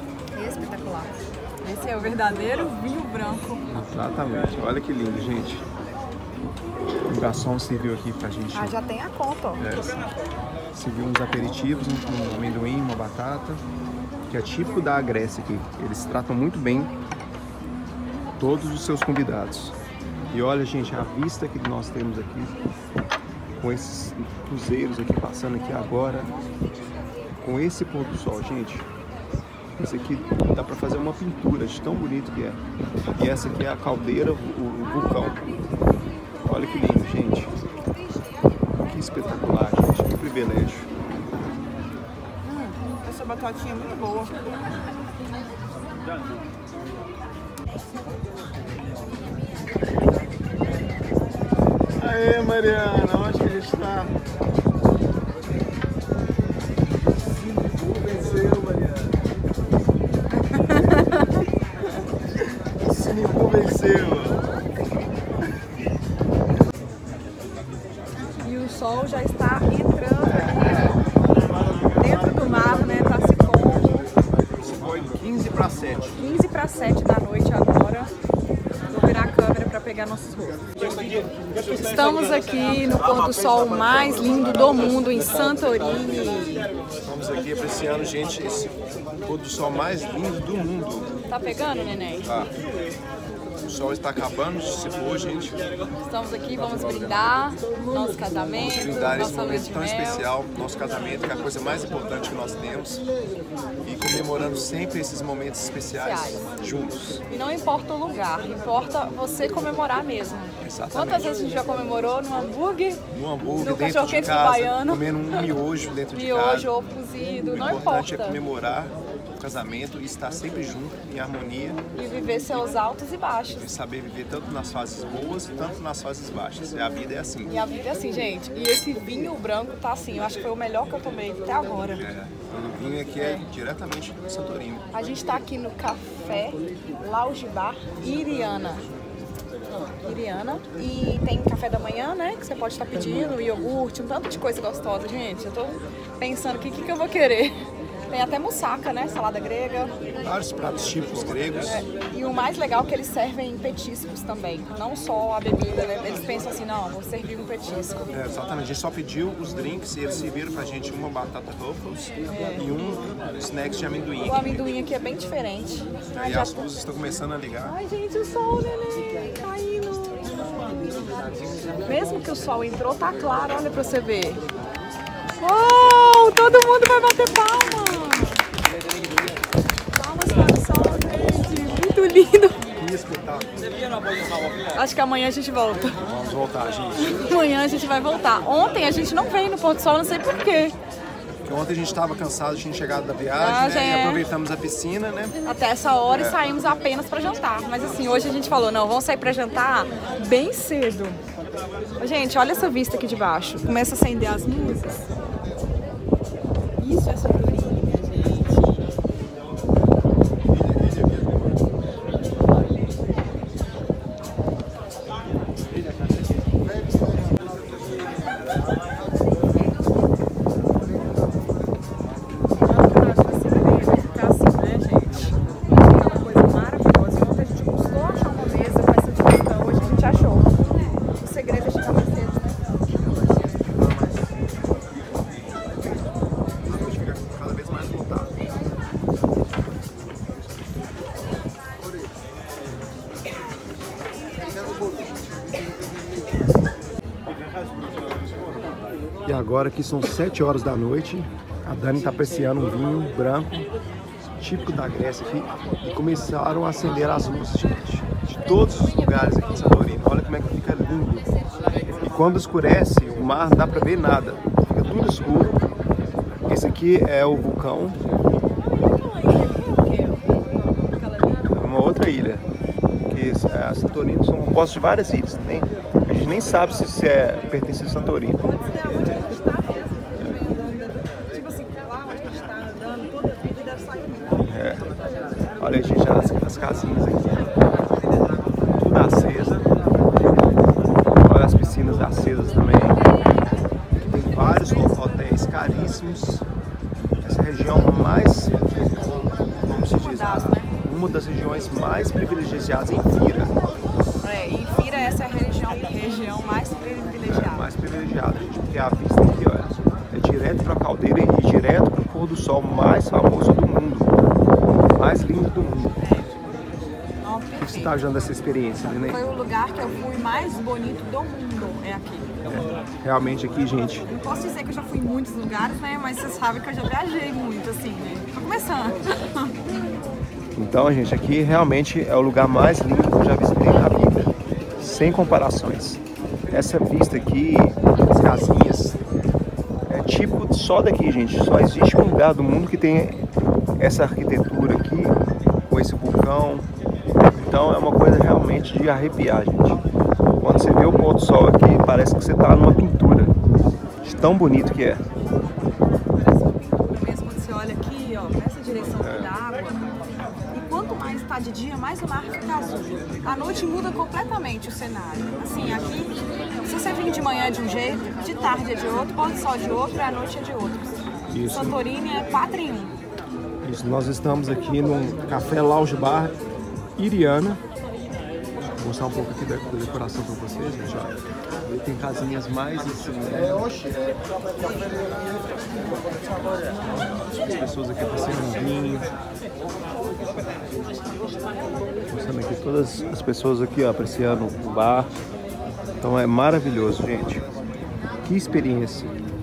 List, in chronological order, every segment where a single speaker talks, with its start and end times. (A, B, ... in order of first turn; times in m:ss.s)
0:00.3-0:03.7 A
0:03.7-0:05.6 B
0:07.1-0:08.8 B
0:08.5-0:09.7 A
0:09.6-0:10.0 B
0:10.7-0:13.6 B
0:14.3-0:16.9 B
0:18.4-0:19.8 B
0:20.3-0:22.6 B
0:23.6-0:26.3 B
0:27.4-0:28.9 B
0:29.8-0:32.6 B
0:33.1-0:35.4 B
0:36.4-0:37.5 B
0:38.8-0:40.9 B
0:42.4-0:44.4 A
0:52.0-0:54.1 B
0:57.8-0:59.1 B
1:00.4-1:01.4 A
1:02.8-1:04.4 B
1:08.4-1:11.0 A
1:12.0-1:14.0 A
1:14.6-1:16.2 B
1:16.2-1:18.1 A
1:18.9-1:20.6 A
1:21.7-1:26.7 A
1:27.0-1:31.1 B
1:31.3-1:32.3 A
1:32.2-1:32.5 B
1:33.6-1:35.6 B
1:36.0-1:40.2 A
1:38.6-1:43.0 B
1:43.8-1:47.2 B
1:46.0-1:46.5 A
1:47.3-1:53.0 A
1:50.6-1:51.3 B
1:53.1-1:56.7 B
1:53.6-1:55.4 A
1:56.1-1:58.4 A
1:57.4-2:01.8 B
2:01.9-2:03.7 A
2:03.5-2:07.6 B
2:07.4-2:12.1 A
2:12.0-2:14.9 B
2:13.2-2:13.4 A
2:14.9-2:18.8 A
2:20.0-2:29.9 A
2:30.2-2:31.8 B
2:31.6-2:38.1 A
2:38.1-2:44.7 B
2:42.3-2:42.6 A
2:44.2-2:46.6 A
2:46.1-2:47.8 B
2:47.6-2:50.4 A
2:51.8-2:54.4 A
2:55.4-2:58.4 A
2:59.9-3:02.6 A
3:02.8-3:03.6 B
3:04.7-3:06.0 A
3:06.0-3:07.2 B
3:07.0-3:10.8 A
3:11.4-3:15.4 B
3:13.4-3:14.2 A
3:15.4-3:21.2 A
3:16.1-3:16.4 B
3:22.0-3:25.1 A
3:26.8-3:28.9 A
3:42.6-3:50.5 A
3:51.2-3:52.9 A
3:56.6-3:58.4 B
4:09.2-4:13.6 B
4:14.4-4:21.3 B
4:22.0-4:25.7 B
4:26.5-4:28.0 B
4:28.8-4:31.5 A
4:31.5-4:32.4 B
4:33.1-4:38.4 B
4:38.4-4:44.4 A
4:44.4-4:44.8 B
4:45.6-4:47.5 B
4:48.8-4:49.6 B
4:51.2-4:53.0 B
4:54.0-4:56.4 B
4:57.2-4:58.6 B
4:59.6-5:03.5 B
4:59.8-5:00.7 A
5:04.2-5:07.7 A
5:07.2-5:14.1 B
5:14.9-5:16.0 B
5:17.2-5:18.0 A
5:17.6-5:19.2 B
5:19.0-5:22.3 A
5:22.4-5:24.0 B
5:24.1-5:29.6 A
5:30.5-5:39.0 B
5:39.9-5:43.2 B
5:43.8-5:46.7 B
5:47.3-5:49.8 B
5:50.4-5:53.3 B
5:54.0-5:55.0 B
5:56.1-5:59.9 A
5:59.0-5:59.3 B
6:00.5-6:12.9 A
6:11.3-6:11.8 B
6:13.6-6:16.3 B
6:17.0-6:17.6 B
6:18.8-6:23.9 B
6:26.7-6:27.2 A
6:26.9-6:29.1 B
6:32.1-6:35.1 B
6:36.0-6:37.5 B
6:38.2-6:39.1 B